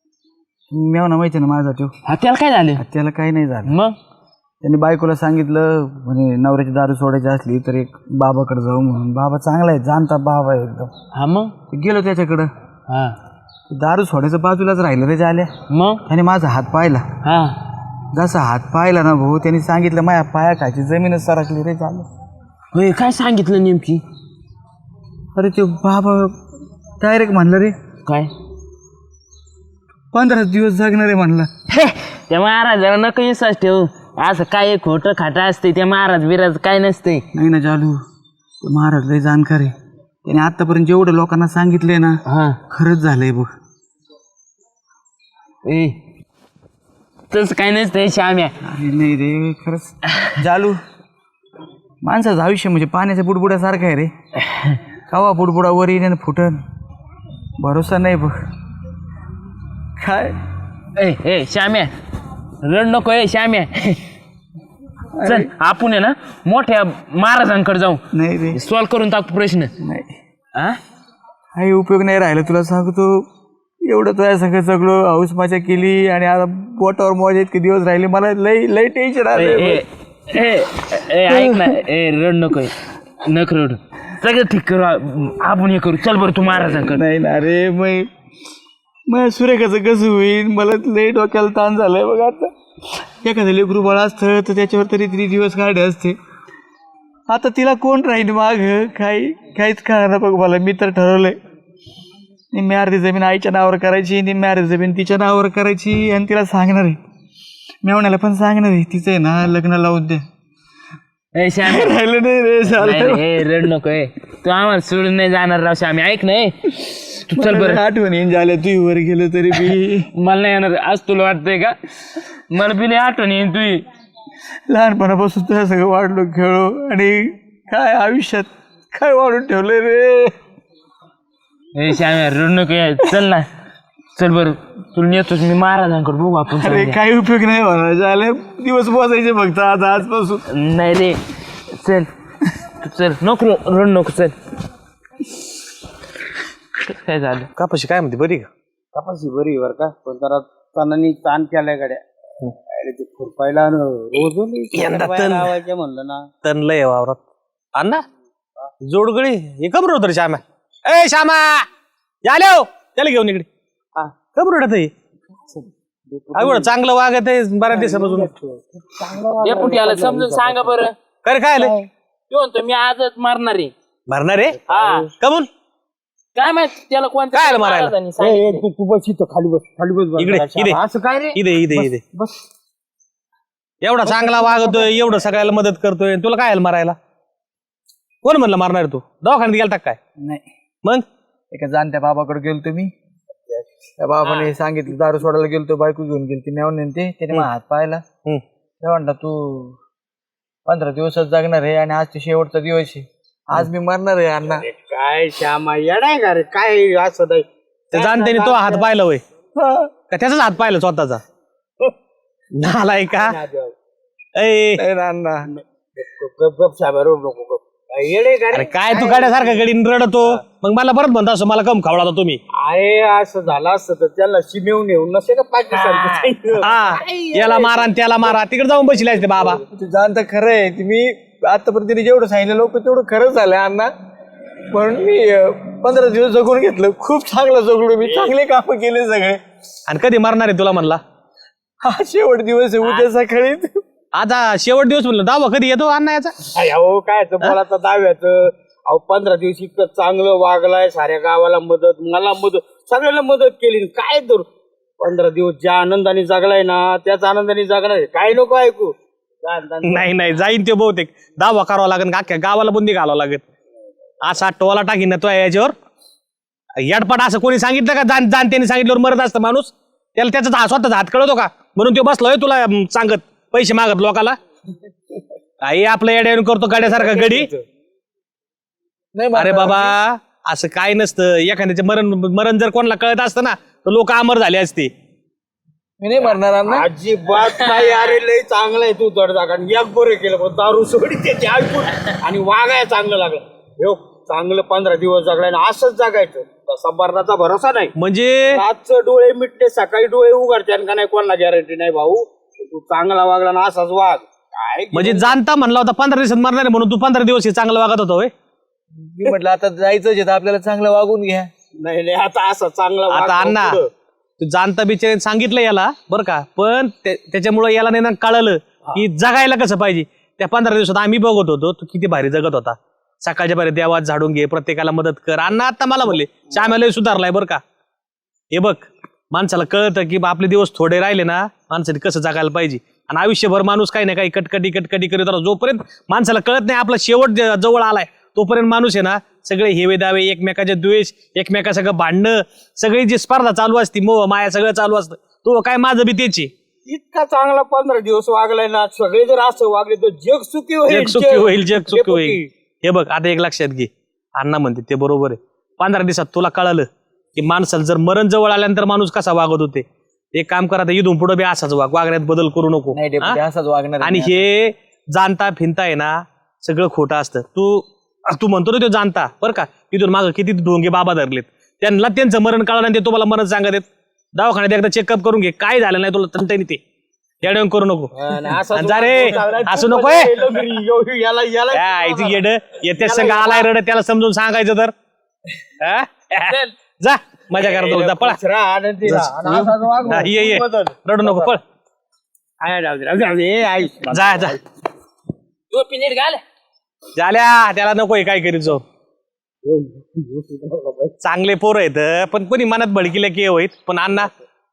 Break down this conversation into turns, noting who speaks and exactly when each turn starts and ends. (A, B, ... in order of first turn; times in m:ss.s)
0:00.7-0:01.9 A
0:02.1-0:02.8 B
0:02.8-0:03.7 A
0:03.7-0:04.0 B
0:04.6-0:10.9 A
0:11.1-0:11.6 B
0:11.7-0:12.5 A
0:12.9-0:13.2 B
0:13.7-0:15.5 A
0:15.7-0:16.0 B
0:16.1-0:17.1 A
0:17.2-0:17.6 B
0:18.1-0:22.1 A
0:22.7-0:24.0 B
0:25.4-0:26.4 A
0:27.0-0:27.8 A
0:28.1-0:28.3 B
0:30.1-0:31.5 A
0:31.7-0:37.3 B
0:37.3-0:38.0 A
0:38.6-0:42.2 A
0:42.3-0:42.6 B
0:42.7-0:43.5 A
0:45.6-0:46.0 B
0:47.3-0:48.6 B
0:48.6-0:50.8 A
0:52.0-0:54.1 A
0:55.1-0:56.6 A
0:57.6-0:58.3 A
1:00.0-1:00.4 A
1:01.0-1:01.9 B
1:02.6-1:04.0 B
1:05.2-1:05.5 A
1:05.2-1:08.0 B
1:08.1-1:08.6 A
1:08.5-1:09.7 B
1:09.8-1:10.1 A
1:11.6-1:13.3 A
1:13.8-1:19.8 A
1:19.3-1:27.0 B
1:21.3-1:21.8 A
1:26.5-1:28.1 A
1:29.1-1:32.5 A
1:33.2-1:36.2 A
1:37.3-1:41.4 A
1:42.5-1:47.0 A
1:47.8-1:50.2 A
1:51.4-1:51.9 B
1:51.6-1:53.7 A
1:52.7-1:56.6 B
1:57.3-1:57.8 B
1:57.3-2:00.1 A
2:00.2-2:01.8 B
2:02.5-2:03.8 B
2:04.7-2:10.4 A
2:11.8-2:13.5 B
2:14.2-2:17.0 B
2:16.5-2:20.4 A
2:20.5-2:21.2 B
2:21.7-2:22.1 B
2:22.8-2:24.3 B
2:26.8-2:27.5 B
2:27.6-2:28.5 C
2:28.9-2:32.0 D
2:32.7-2:36.2 D
2:34.7-2:35.6 C
2:36.4-2:37.2 C
2:37.8-2:38.0 C
2:38.9-2:41.7 C
2:42.2-2:43.5 C
2:44.3-2:44.9 C
2:46.2-2:46.7 B
2:46.3-2:48.3 C
2:47.7-2:50.8 D
2:49.4-2:51.0 B
2:51.2-2:51.8 C
2:52.3-2:53.7 B
2:54.1-2:54.6 C
2:54.7-2:55.1 B
2:54.7-2:55.1 D
2:55.2-2:55.5 C
2:56.4-2:58.6 B
2:57.3-2:57.9 C
2:58.2-3:02.3 D
3:00.2-3:00.8 C
3:01.3-3:02.0 C
3:03.8-3:07.0 C
3:04.0-3:05.1 D
3:08.2-3:10.0 C
3:10.2-3:10.5 A
3:11.5-3:12.9 A
3:14.0-3:18.0 A
3:18.8-3:19.8 A
3:20.7-3:24.6 A
3:24.5-3:28.9 D
3:27.9-3:29.2 C
3:29.6-3:29.9 A
3:30.1-3:31.2 C
3:32.6-3:33.4 C
3:33.1-3:33.7 D
3:34.4-3:34.8 C
3:34.8-3:35.5 A
3:35.5-3:39.6 D
3:38.5-3:42.4 C
3:42.5-3:48.4 D
3:46.6-3:49.6 C
3:49.3-3:49.6 D
3:49.7-3:53.9 A
3:54.7-3:59.4 A
3:59.9-4:01.0 C
4:01.8-4:03.8 A
4:04.2-4:06.4 C
4:06.5-4:14.5 D
4:15.0-4:20.3 D
4:19.8-4:23.4 C
4:24.2-4:25.8 C
4:26.8-4:34.4 C
4:35.6-4:37.5 C
4:36.7-4:37.6 D
4:39.2-4:40.0 A
4:39.4-4:44.9 C
4:46.0-4:46.9 A
4:46.7-4:57.9 D
4:58.0-4:58.6 C
4:58.5-5:05.4 D
5:04.9-5:08.3 C
5:08.9-5:11.5 A
5:11.8-5:13.9 D
5:13.1-5:13.8 C
5:14.4-5:27.6 C
5:28.5-5:46.5 C
5:46.9-5:52.5 D
5:50.9-6:03.4 C
6:02.9-6:04.5 A
6:04.0-6:16.8 C
6:17.4-6:20.5 C
6:18.2-6:22.4 D
6:21.7-6:24.9 C
6:23.0-6:23.7 D
6:25.8-6:28.4 C
6:26.3-6:26.7 B
6:27.6-6:31.5 D
6:30.1-6:31.6 C
6:32.6-6:34.6 D
6:34.1-6:34.6 C
6:35.7-6:36.4 B
6:37.2-6:38.8 C
6:39.6-6:41.2 D
6:41.2-6:44.3 C